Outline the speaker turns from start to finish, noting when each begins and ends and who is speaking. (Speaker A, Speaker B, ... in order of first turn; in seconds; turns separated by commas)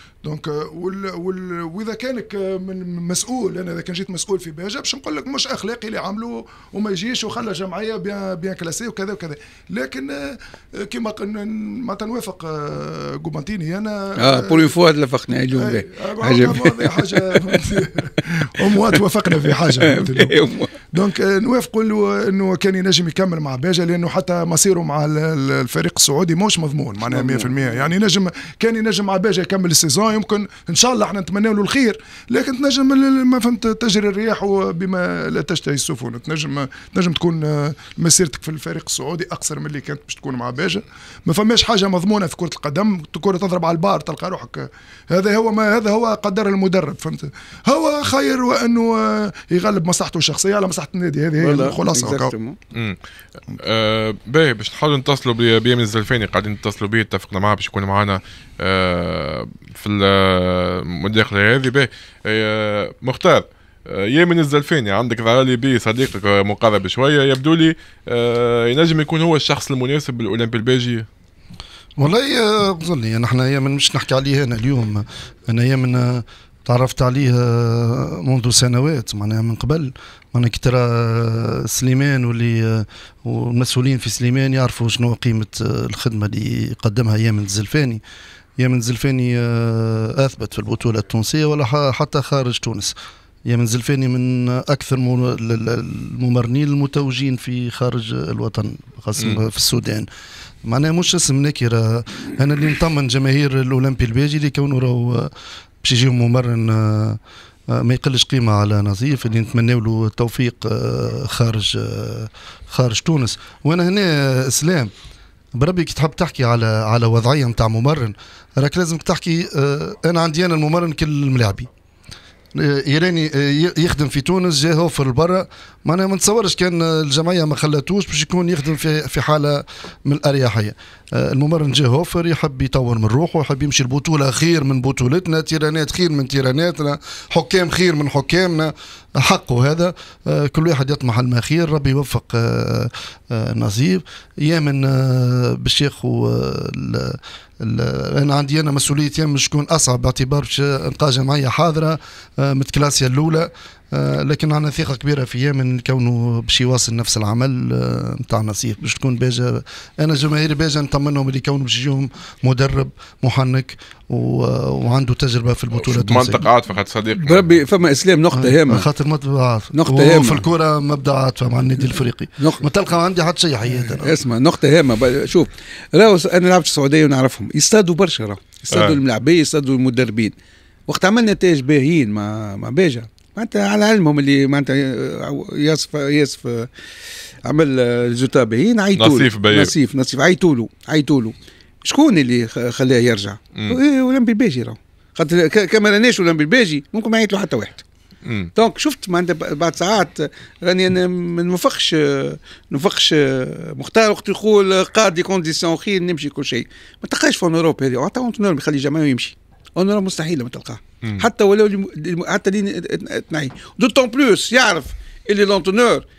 Speaker A: 0.2-14.8, Speaker B: 14.2-17.7, Speaker A: 15.5-52.3, Speaker B: 18.6-20.7, Speaker B: 27.1-27.6, Speaker B: 51.4-52.6, Speaker C: 53.6-71.1, Speaker D: 72.0-88.0, Speaker D: 88.6-92.9, Speaker D: 93.5-100.1, Speaker D: 100.6-105.3, Speaker D: 105.8-107.2, Speaker D: 107.7-114.9, Speaker D: 115.5-121.7, Speaker D: 122.5-166.5, Speaker C: 165.8-167.6, Speaker B: 167.2-168.9, Speaker D: 168.3-174.2, Speaker B: 169.7-170.5, Speaker B: 172.4-172.7, Speaker B: 173.8-180.3, Speaker C: 178.7-179.0, Speaker B: 180.9-186.7, Speaker B: 187.4-197.8, Speaker C: 188.9-189.7, Speaker C: 198.2-198.5, Speaker B: 198.5-216.0